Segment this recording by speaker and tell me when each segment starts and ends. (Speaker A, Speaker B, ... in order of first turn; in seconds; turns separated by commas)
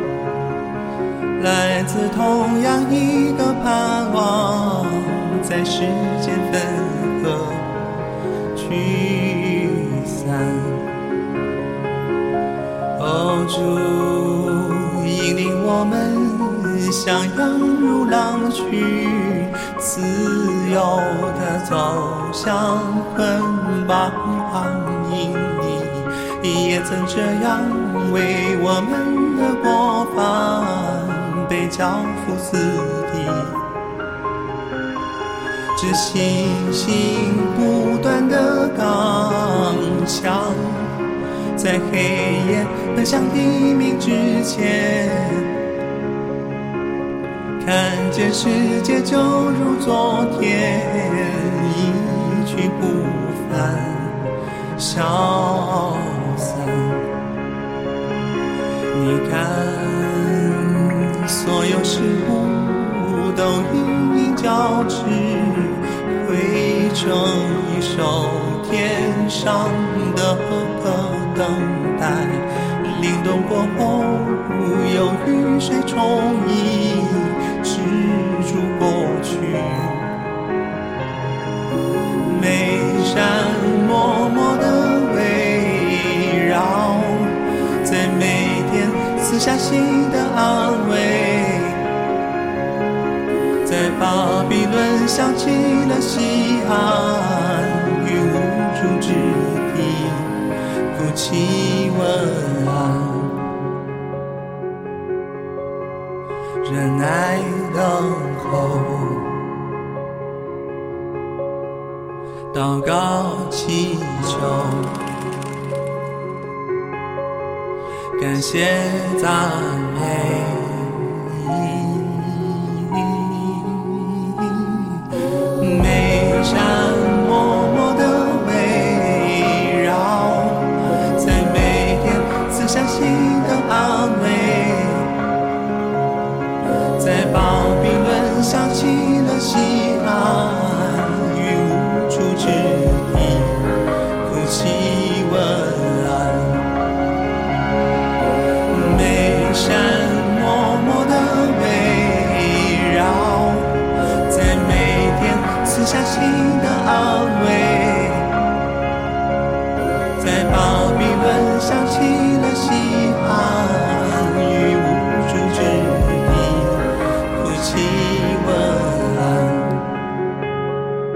Speaker A: 1.4-7.7, Speaker A: 8.5-10.9, Speaker A: 13.0-33.6, Speaker A: 35.8-41.0, Speaker A: 41.6-45.6, Speaker A: 47.6-54.2, Speaker A: 54.8-57.1, Speaker A: 58.9-80.1, Speaker A: 82.2-91.9, Speaker A: 93.7-100.3, Speaker A: 100.9-103.4, Speaker A: 106.6-109.4, Speaker A: 112.5-115.0, Speaker A: 118.2-135.2, Speaker A: 137.0-143.7, Speaker A: 144.2-146.7, Speaker A: 148.7-158.3, Speaker A: 160.2-169.9